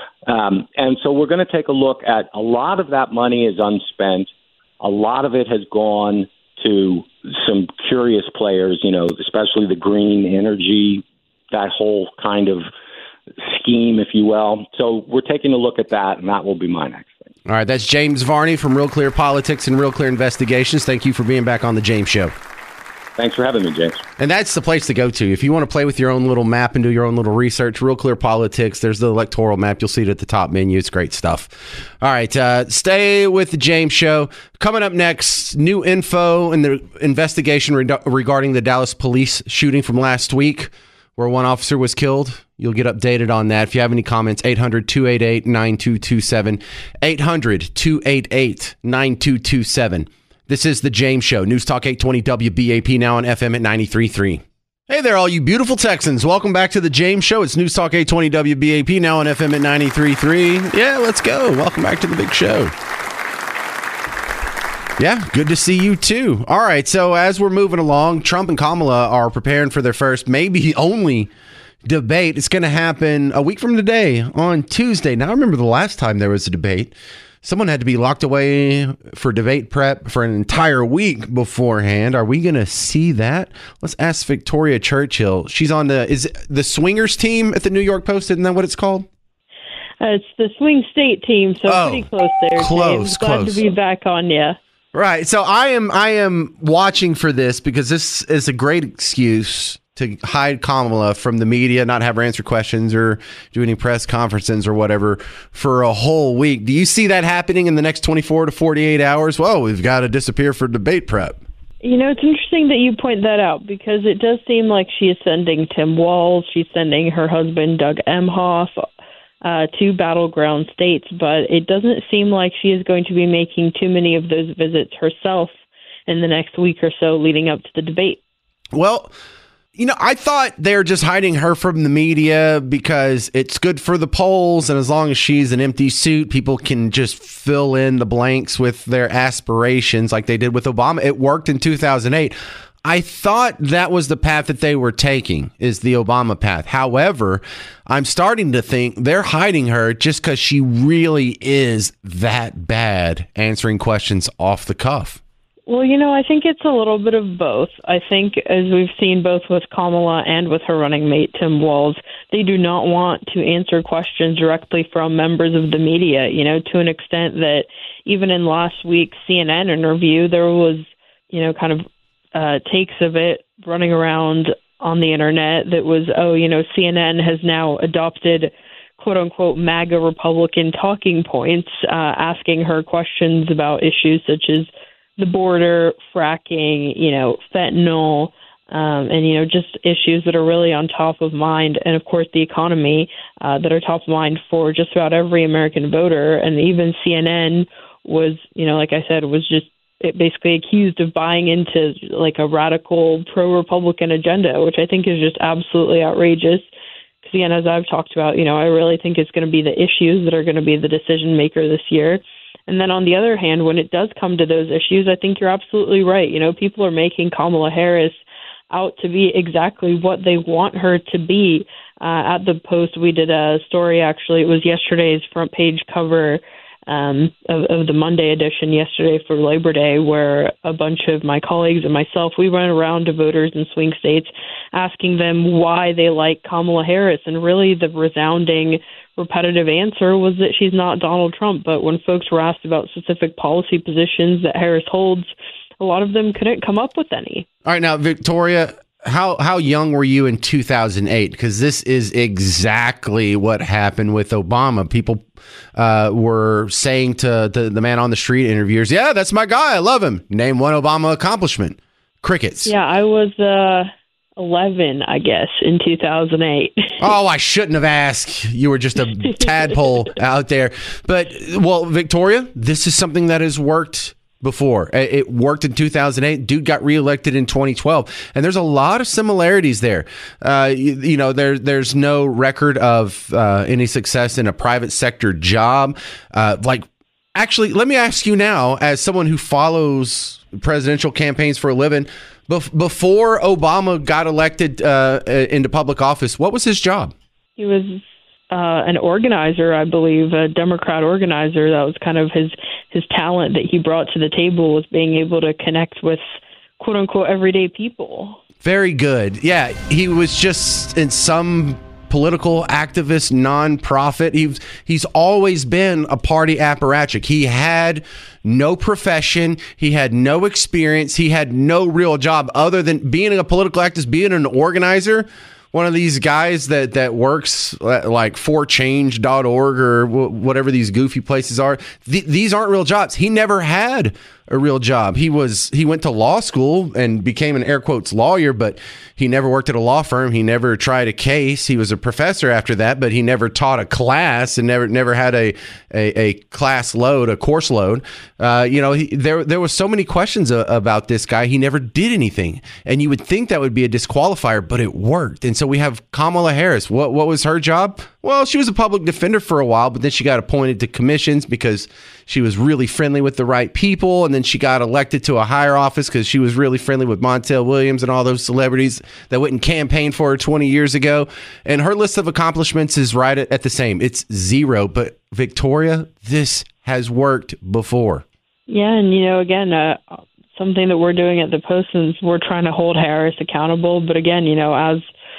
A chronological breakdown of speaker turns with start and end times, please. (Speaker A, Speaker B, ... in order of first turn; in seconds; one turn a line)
Speaker A: 0.2-12.6
Speaker A: 13.4-17.3
Speaker B: 17.4-22.3
Speaker A: 23.2-24.0
Speaker B: 24.2-62.7
Speaker B: 65.0-71.3
Speaker B: 71.8-89.1
Speaker C: 90.0-94.6
Speaker B: 91.7-93.6
Speaker B: 94.9-111.4
Speaker C: 111.8-118.8
Speaker C: 119.4-125.5
Speaker C: 126.1-128.2
Speaker B: 128.7-129.1
Speaker B: 129.8-155.2
Speaker C: 155.7-206.7
Speaker C: 207.2-247.5
Speaker B: 247.7-255.2
Speaker B: 255.8-262.7
Speaker C: 262.6-266.8
Speaker B: 267.0-297.1
Speaker C: 297.6-306.2
Speaker C: 306.8-308.4
Speaker B: 308.6-378.2
Speaker C: 378.7-385.1